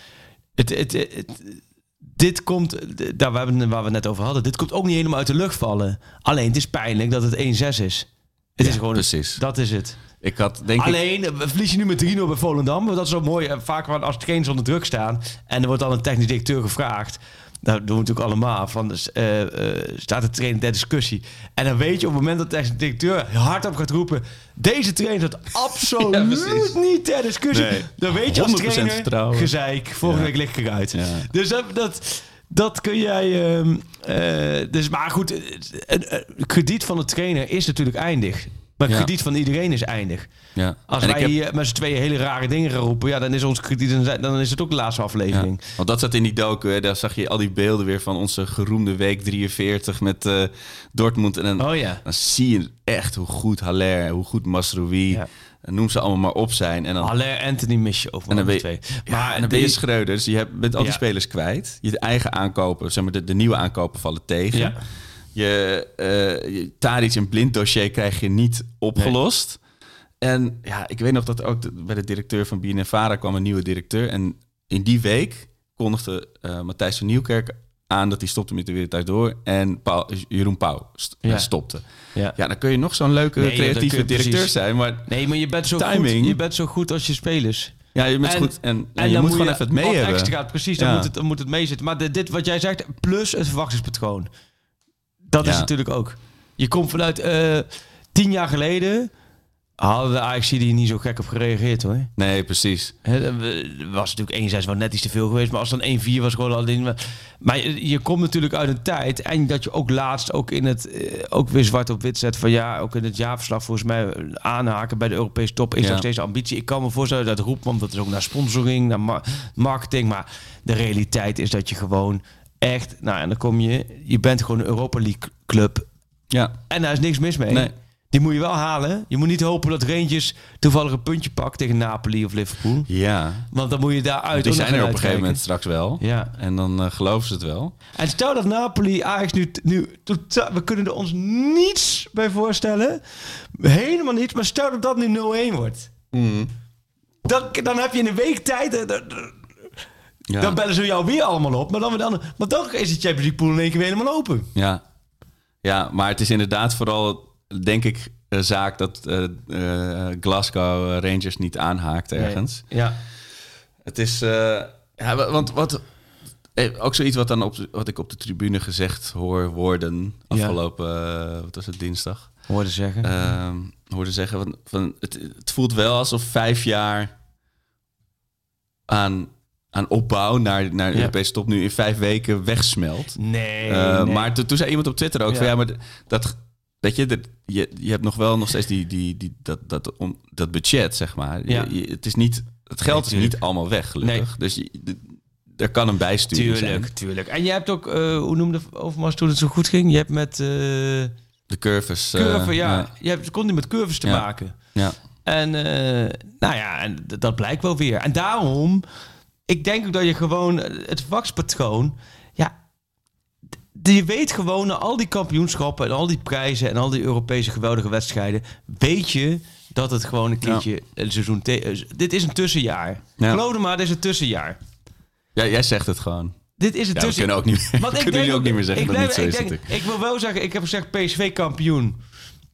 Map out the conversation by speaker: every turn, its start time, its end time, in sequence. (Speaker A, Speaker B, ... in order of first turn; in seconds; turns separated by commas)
Speaker A: 0.6-10.0, Speaker B: 8.6-9.4, Speaker B: 10.2-11.0, Speaker A: 10.8-40.3, Speaker B: 26.0-26.7, Speaker B: 27.5-30.3, Speaker B: 30.9-31.3, Speaker B: 40.5-41.4, Speaker A: 40.9-45.6, Speaker B: 45.3-57.1, Speaker A: 51.6-52.0, Speaker A: 57.0-59.8, Speaker B: 58.3-64.8, Speaker A: 64.5-64.8, Speaker B: 65.3-69.6, Speaker B: 70.2-85.1, Speaker A: 81.2-81.5, Speaker A: 83.4-84.5, Speaker A: 85.0-94.3, Speaker B: 85.7-86.4, Speaker B: 87.9-91.1, Speaker A: 95.3-99.1, Speaker B: 95.4-95.7, Speaker A: 99.8-102.1, Speaker B: 102.2-102.9, Speaker A: 103.0-125.9, Speaker B: 115.8-116.0, Speaker B: 126.3-126.6, Speaker A: 126.7-132.9, Speaker B: 132.9-133.5, Speaker A: 133.5-135.4, Speaker B: 134.3-137.8, Speaker A: 136.0-136.3, Speaker A: 137.9-143.0, Speaker A: 143.6-145.9, Speaker B: 146.1-146.5, Speaker A: 147.2-149.4, Speaker B: 150.3-150.6, Speaker A: 150.4-154.5, Speaker B: 154.5-154.8, Speaker B: 155.6-162.7, Speaker A: 162.2-163.0, Speaker B: 163.8-165.8, Speaker B: 166.5-172.5, Speaker A: 170.3-170.6, Speaker A: 172.5-173.1, Speaker B: 173.0-177.1, Speaker B: 178.9-196.9, Speaker A: 183.2-184.3, Speaker A: 192.9-193.4, Speaker A: 194.0-194.3, Speaker A: 196.3-201.1, Speaker B: 201.5-202.9, Speaker A: 202.1-204.6, Speaker B: 204.0-204.9, Speaker A: 205.2-208.8, Speaker A: 209.5-212.5, Speaker A: 213.7-224.6, Speaker B: 225.3-226.4, Speaker A: 226.6-232.0, Speaker B: 226.9-229.7